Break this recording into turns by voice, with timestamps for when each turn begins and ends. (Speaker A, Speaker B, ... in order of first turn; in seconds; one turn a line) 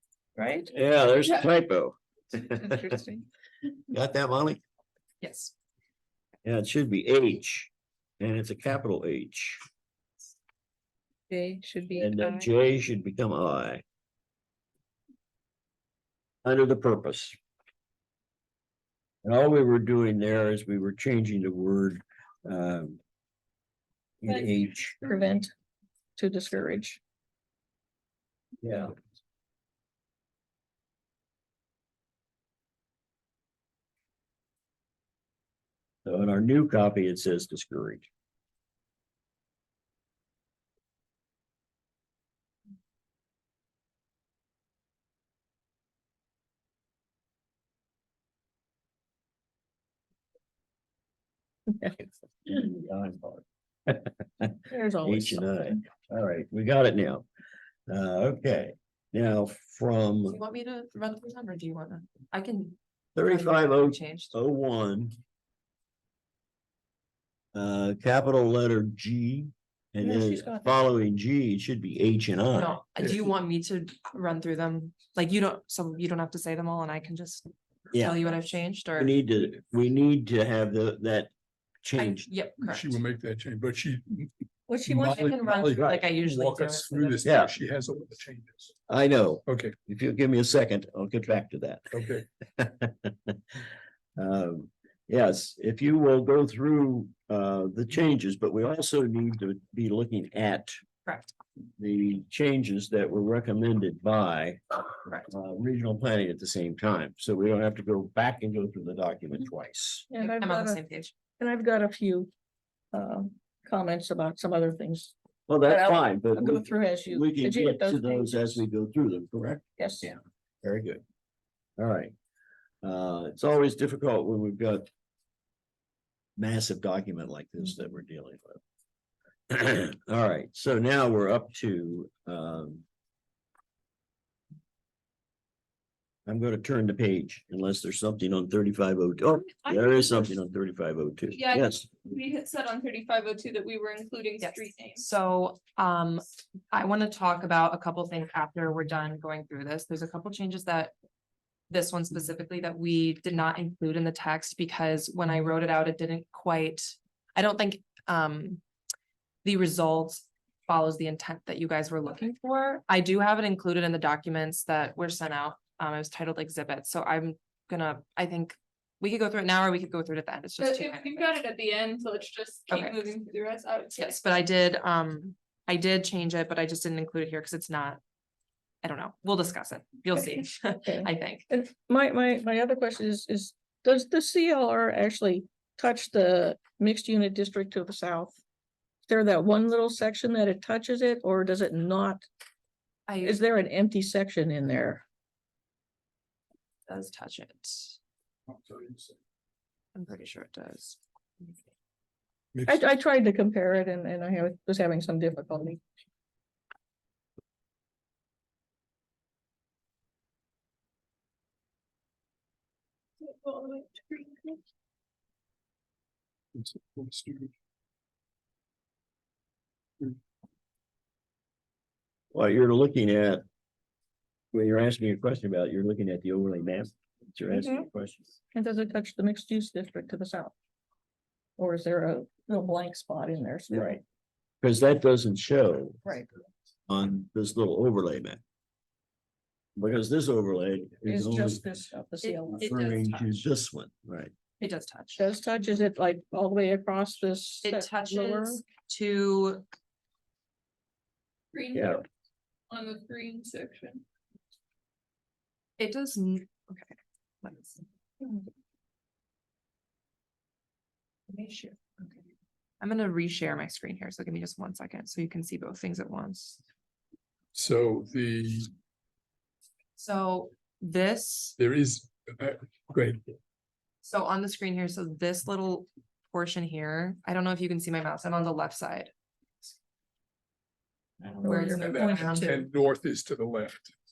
Speaker A: 0.4-0.7
Speaker B: 0.7-3.0
Speaker C: 1.1-1.5
Speaker A: 2.6-3.2
Speaker B: 3.9-4.6
Speaker D: 5.2-5.5
Speaker B: 6.4-9.6
Speaker A: 11.3-12.5
Speaker B: 12.0-13.8
Speaker B: 16.4-17.4
Speaker B: 19.2-23.0
Speaker B: 24.2-25.0
Speaker A: 25.0-25.5
Speaker A: 26.2-27.0
Speaker B: 28.6-28.9
Speaker B: 36.0-38.1
Speaker B: 52.0-57.2
Speaker A: 54.7-55.7
Speaker B: 57.9-60.4
Speaker D: 60.2-64.3
Speaker B: 63.1-65.2
Speaker B: 67.5-72.8
Speaker A: 70.0-70.8
Speaker D: 72.5-79.2
Speaker E: 73.0-73.3
Speaker B: 77.9-78.4
Speaker B: 79.0-81.3
Speaker B: 81.8-82.3
Speaker D: 82.0-83.0
Speaker E: 82.6-84.3
Speaker A: 84.7-85.3
Speaker E: 84.8-88.7
Speaker D: 84.9-87.3
Speaker B: 87.2-87.5
Speaker B: 88.9-93.4
Speaker E: 89.5-89.7
Speaker E: 91.9-92.2
Speaker B: 94.2-100.8
Speaker D: 101.0-101.3
Speaker B: 101.8-104.6
Speaker D: 105.0-105.3
Speaker B: 105.3-110.1
Speaker A: 110.1-110.8
Speaker D: 110.1-111.1
Speaker A: 111.4-112.3
Speaker A: 112.9-115.1
Speaker B: 115.5-121.0
Speaker A: 115.7-118.6
Speaker A: 119.8-120.1
Speaker B: 121.8-122.1
Speaker B: 122.8-124.9
Speaker B: 126.4-128.6
Speaker B: 129.5-132.8
Speaker B: 136.2-141.9
Speaker C: 139.7-140.2
Speaker C: 141.3-145.1
Speaker D: 144.4-150.9
Speaker D: 151.7-158.6
Speaker D: 159.4-171.4
Speaker C: 170.6-174.2
Speaker D: 172.7-173.1
Speaker D: 174.0-178.0
Speaker D: 178.8-181.5
Speaker A: 180.8-188.4
Speaker A: 189.1-192.2
Speaker D: 193.1-193.5
Speaker A: 193.2-195.0
Speaker D: 196.9-198.0
Speaker E: 198.7-199.0
Speaker D: 199.9-201.6
Speaker E: 202.5-202.9
Speaker A: 202.7-205.8
Speaker C: 213.2-214.6
Speaker E: 216.6-217.5
Speaker B: 222.3-223.4
Speaker B: 224.5-228.3
Speaker A: 227.5-227.9
Speaker A: 228.5-230.5
Speaker A: 231.6-234.0
Speaker B: 234.6-236.0
Speaker B: 236.9-238.4
Speaker B: 239.8-241.6
Speaker A: 241.1-242.7
Speaker D: 242.2-243.4
Speaker B: 242.5-244.3
Speaker D: 244.6-245.2
Speaker A: 245.2-248.7
Speaker D: 247.6-249.7
Speaker C: 251.5-252.1
Speaker B: 251.7-252.0
Speaker C: 252.7-254.0
Speaker D: 255.8-257.9
Speaker D: 261.3-262.2
Speaker D: 262.8-266.6
Speaker E: 267.5-268.7
Speaker D: 270.0-271.6
Speaker E: 271.6-273.2
Speaker D: 274.0-279.1
Speaker A: 281.4-282.6
Speaker D: 281.4-282.6
Speaker E: 281.7-283.9